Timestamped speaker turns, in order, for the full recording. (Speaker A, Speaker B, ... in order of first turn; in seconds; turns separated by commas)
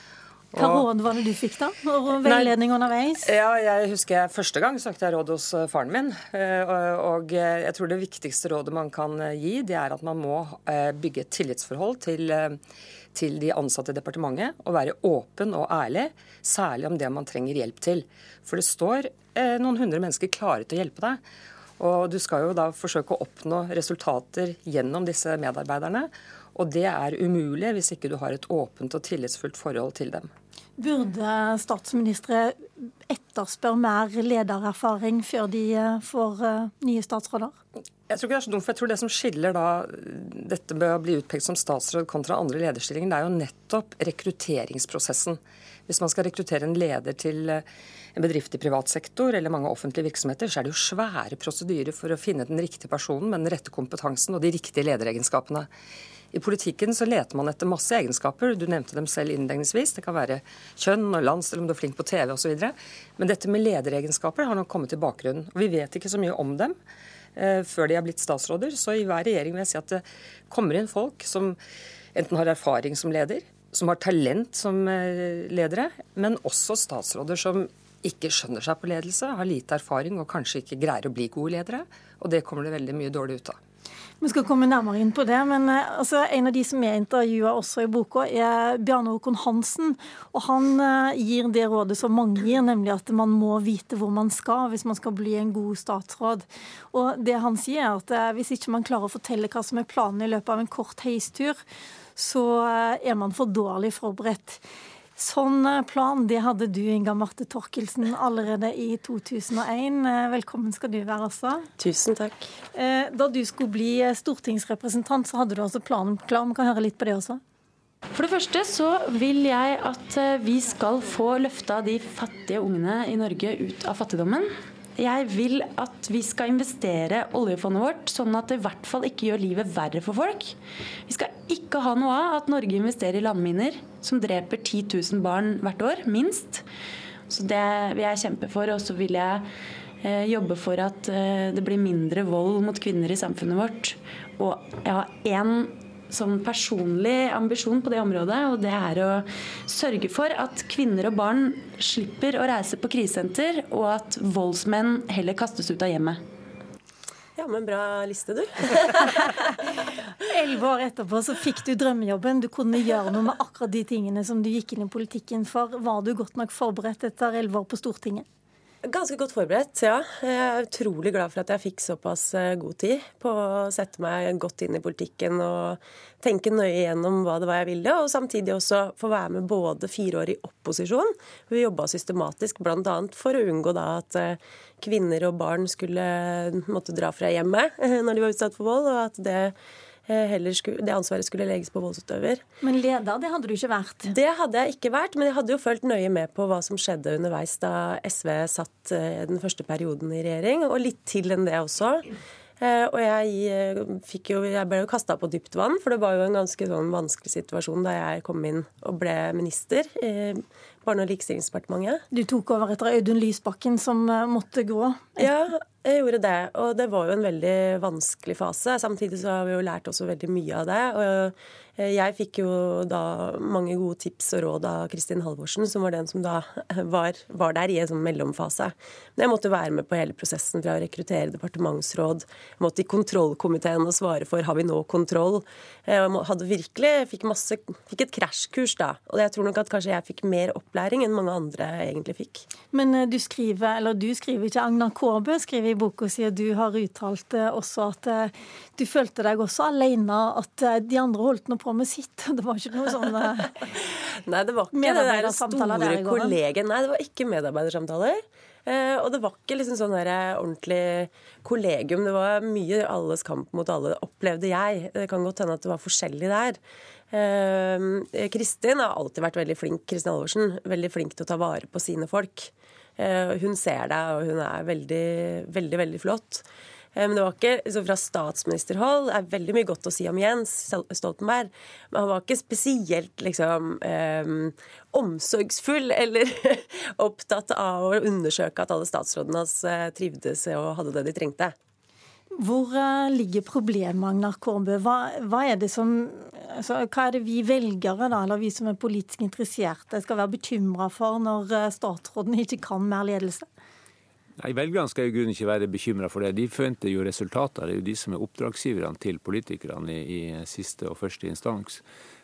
Speaker A: 0.5-0.9, Speaker B: 0.5-3.3, Speaker A: 2.2-2.6, Speaker A: 3.2-12.6, Speaker A: 13.1-21.2, Speaker A: 21.8-30.3, Speaker B: 30.8-37.6, Speaker A: 38.1-47.6, Speaker A: 48.1-55.7, Speaker A: 56.3-66.7, Speaker A: 67.3-71.6, Speaker A: 72.1-83.6, Speaker B: 84.2-101.6, Speaker B: 102.2-104.6, Speaker B: 105.2-111.7, Speaker C: 111.8-112.4, Speaker B: 112.7-117.4, Speaker D: 118.2-130.5, Speaker D: 131.1-136.6, Speaker D: 137.3-139.4, Speaker D: 140.0-156.2, Speaker C: 157.4-159.3, Speaker B: 160.2-168.2, Speaker C: 168.8-189.5, Speaker C: 190.1-192.4, Speaker B: 192.6-194.1, Speaker C: 194.1-202.0, Speaker C: 202.6-212.0, Speaker B: 212.1-215.3, Speaker C: 215.2-242.4, Speaker B: 242.7-253.6, Speaker C: 254.2-266.6, Speaker B: 254.7-256.4, Speaker C: 267.1-276.4, Speaker C: 277.0-291.5, Speaker B: 292.3-303.5, Speaker E: 304.4-311.8